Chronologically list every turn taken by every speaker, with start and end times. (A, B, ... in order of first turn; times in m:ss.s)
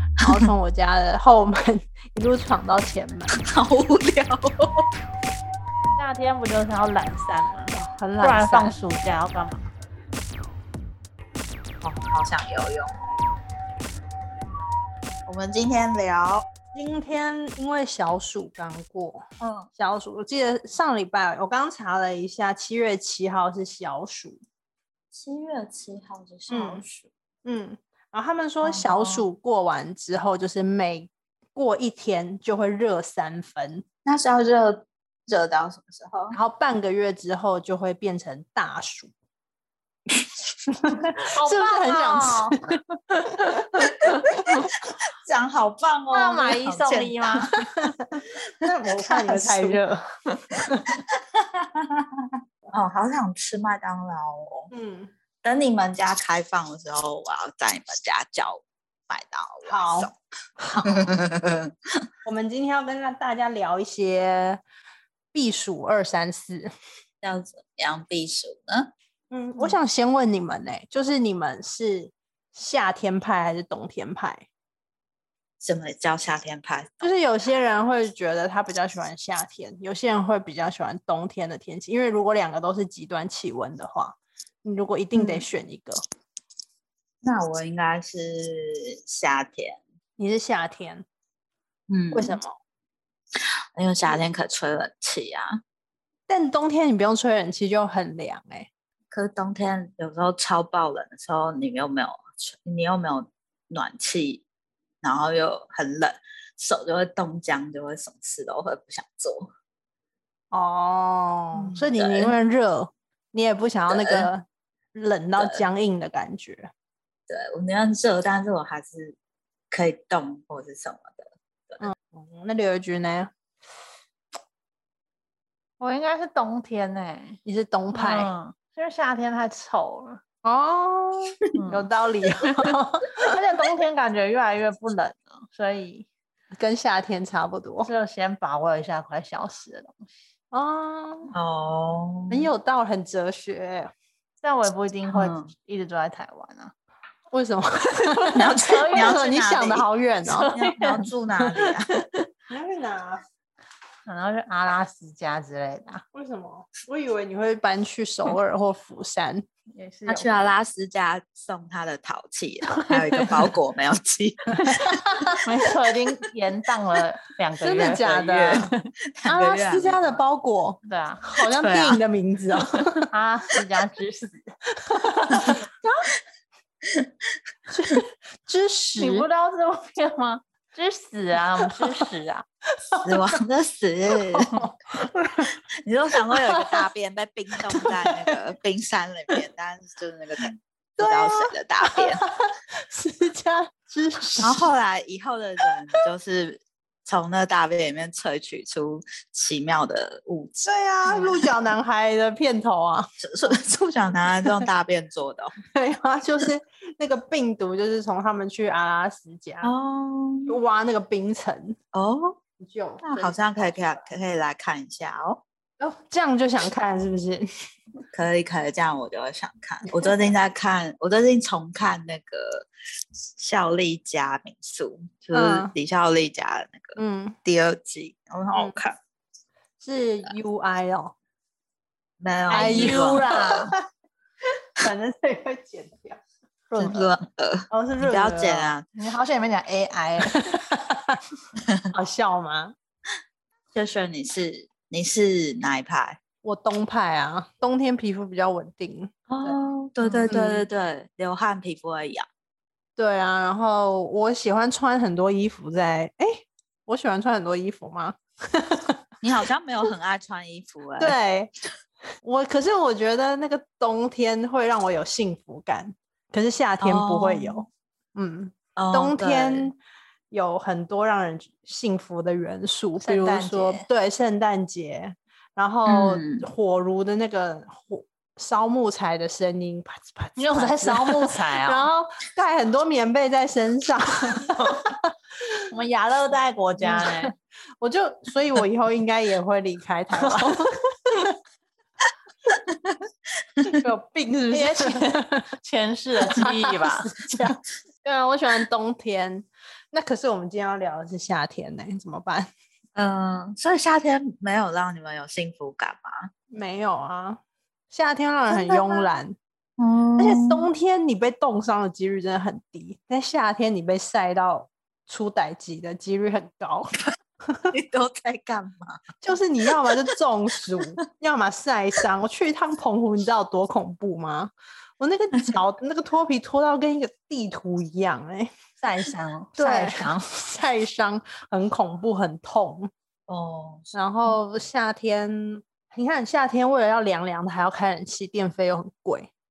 0:00.2-0:03.4 A
0:03.4-0:04.9 B
0:06.0-0:09.7 C
0:07.7-0:08.8 A
0:11.8-0:12.9 B
0:15.3-0:16.5 B
0:16.7-0:24.4 A
0:19.4-0:19.7 B
0:25.1-0:27.1 B
0:26.5-0:26.8 A
0:27.4-0:33.8 A
0:28.6-0:29.2 B
0:34.0-0:36.4 B
0:36.3-0:39.1 A
0:40.7-0:44.7 A
0:41.3-0:42.6 C
0:44.4-0:47.6 B
0:46.1-0:47.5 C
0:47.6-0:50.9 A
0:49.4-0:49.7 C
0:51.0-0:54.7 B
0:54.7-0:55.1 A
0:55.4-1:00.2 B
0:59.6-1:01.1 A
1:00.8-1:01.7 B
1:02.2-1:04.6 A
1:05.3-1:06.7 A
1:07.2-1:08.9 B
1:09.3-1:14.5 A
1:15.6-1:17.1 B
1:17.0-1:26.0 A
1:25.2-1:25.4 B
1:27.2-1:29.8 B
1:30.2-1:31.0 A
1:31.9-1:32.4 B
1:32.1-1:32.6 A
1:33.4-1:35.6 B
1:36.3-1:38.7 A
1:39.1-1:44.4 B
1:45.0-1:49.5 B
1:50.5-1:56.7 A
1:51.6-1:52.3 B
1:53.9-1:54.3 B
1:55.4-1:55.7 B
1:57.3-1:59.2 B
1:59.7-2:01.8 B
2:01.8-2:03.3 A
2:05.8-2:07.4 C
2:07.4-2:08.3 A
2:07.9-2:10.2 C
2:10.4-2:13.3 A
2:11.6-2:11.9 C
2:13.2-2:16.1 C
2:16.6-2:17.9 A
2:17.8-2:20.0 C
2:20.5-2:21.3 A
2:21.3-2:22.5 B
2:22.3-2:23.9 A
2:24.4-2:26.7 C
2:25.1-2:25.5 B
2:27.3-2:30.5 A
2:28.1-2:29.3 C
2:28.3-2:29.9 B
2:30.3-2:31.1 C
2:30.5-2:31.9 B
2:32.5-2:33.2 A
2:34.1-2:36.0 C
2:36.1-2:39.5 A
2:39.7-2:40.5 C
2:40.1-2:45.3 B
2:44.6-2:45.4 A
2:45.3-2:48.7 C
2:47.6-2:48.8 A
2:48.1-2:50.2 B
2:49.3-2:53.1 A
2:50.8-2:51.2 C
2:51.4-2:52.0 B
2:53.1-2:54.5 C
2:54.8-2:55.6 A
2:55.5-2:56.0 C
2:56.8-2:57.1 B
2:57.7-2:59.3 A
2:59.0-3:02.4 C
3:03.0-3:04.7 B
3:04.3-3:05.5 A
3:05.4-3:12.2 B
3:06.3-3:06.8 A
3:07.7-3:08.3 A
3:11.0-3:14.7 A
3:14.4-3:21.5 B
3:20.6-3:23.1 A
3:23.2-3:25.5 B
3:25.7-3:29.7 A
3:29.6-3:30.6 B
3:30.5-3:31.8 A
3:31.9-3:32.4 B
3:32.6-3:33.4 A
3:33.0-3:35.4 B
3:35.8-3:37.5 A
3:38.1-3:42.7 B
3:43.4-3:49.0 B
3:45.3-3:45.7 A
3:47.0-3:47.4 A
3:49.8-3:51.2 A
3:52.2-3:53.7 B
3:52.5-3:53.7 C
3:52.5-3:53.8 A
3:54.8-3:56.2 A
3:56.8-3:58.9 B
3:57.7-3:58.8 A
3:59.0-4:00.6 C
4:00.3-4:01.2 A
4:01.9-4:02.7 A
4:03.7-4:06.2 B
4:06.4-4:09.6 A
4:09.3-4:12.3 B
4:10.0-4:10.3 C
4:10.3-4:10.6 A
4:13.0-4:19.0 A
4:19.2-4:21.2 B
4:21.0-4:21.5 A
4:22.2-4:29.8 A
4:26.8-4:27.6 B
4:28.8-4:29.7 B
4:30.3-4:45.1 A
4:33.0-4:33.8 C
4:35.9-4:36.5 B
4:40.4-4:41.9 C
4:45.7-4:47.3 C
4:46.8-4:47.3 A
4:47.8-4:51.3 A
4:53.7-4:55.5 A
4:54.5-4:57.1 C
4:56.3-5:02.5 A
5:03.0-5:06.3 B
5:06.5-5:09.4 A
5:08.5-5:09.1 B
5:09.8-5:10.7 B
5:10.2-5:17.7 A
5:17.7-5:19.1 B
5:19.2-5:28.5 A
5:28.8-5:30.2 C
5:29.6-5:32.9 A
5:33.3-5:33.9 B
5:33.9-5:39.3 A